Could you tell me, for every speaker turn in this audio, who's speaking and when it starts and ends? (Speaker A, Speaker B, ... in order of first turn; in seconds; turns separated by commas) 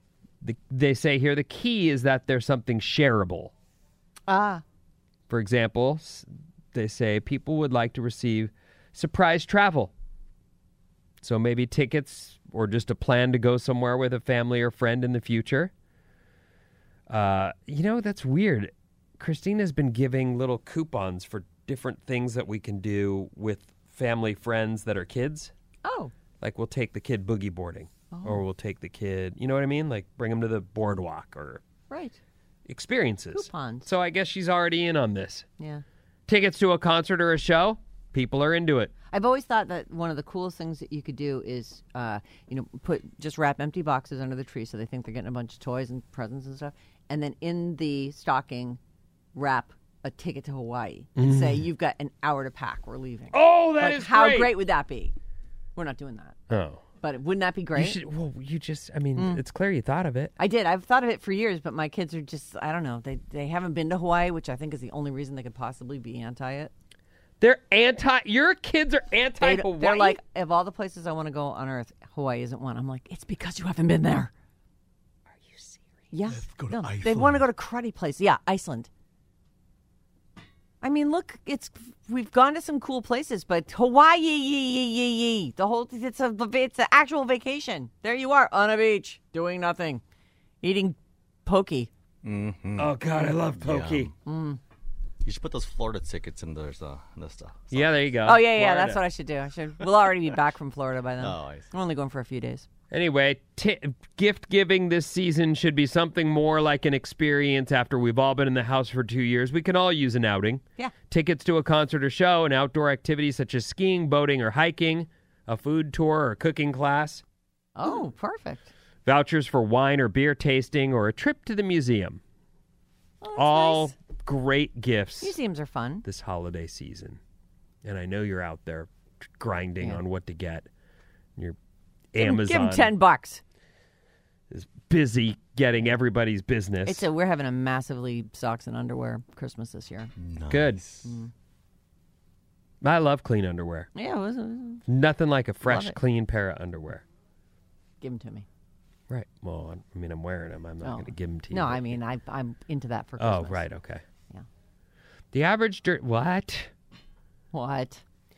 Speaker A: 0.4-3.5, Speaker B: 4.3-4.6, Speaker A: 5.3-9.9, Speaker A: 11.2-15.7, Speaker A: 17.1-25.5, Speaker B: 25.9-26.1, Speaker A: 26.4-31.6, Speaker B: 28.1-28.4, Speaker B: 31.9-32.2, Speaker A: 32.7-35.5, Speaker B: 33.3-33.9, Speaker A: 36.3-38.9, Speaker B: 39.1-48.8, Speaker B: 49.4-55.1, Speaker A: 51.2-51.6, Speaker A: 53.3-54.6, Speaker B: 55.8-56.4, Speaker A: 56.5-56.8, Speaker B: 57.0-58.0, Speaker A: 57.8-60.3, Speaker B: 59.2-59.4, Speaker B: 60.4-66.7, Speaker A: 67.4-70.2, Speaker B: 69.4-74.3, Speaker A: 75.4-75.8, Speaker B: 76.1-78.9, Speaker C: 76.3-77.5, Speaker B: 80.8-90.0, Speaker B: 90.6-91.9, Speaker C: 92.2-92.9, Speaker A: 92.8-94.1, Speaker C: 93.6-94.1, Speaker B: 94.2-94.6, Speaker C: 95.2-97.9, Speaker A: 97.7-99.0, Speaker B: 98.2-102.7, Speaker C: 101.2-101.7, Speaker A: 102.9-117.2, Speaker B: 117.8-118.7, Speaker A: 119.1-122.2, Speaker B: 123.2-123.9, Speaker A: 123.3-125.4, Speaker B: 125.2-126.0, Speaker A: 126.0-127.2, Speaker A: 127.8-130.7, Speaker A: 132.1-132.9, Speaker B: 132.2-133.4, Speaker A: 134.5-137.0, Speaker B: 136.8-140.1, Speaker C: 140.2-141.1, Speaker A: 140.5-140.8, Speaker B: 141.0-141.3, Speaker A: 142.8-143.9, Speaker B: 143.9-144.8, Speaker A: 144.9-147.1, Speaker B: 145.6-146.0, Speaker B: 148.0-148.5, Speaker A: 149.1-152.0, Speaker B: 150.8-153.7, Speaker A: 153.2-154.0, Speaker A: 155.3-156.7, Speaker B: 157.5-158.0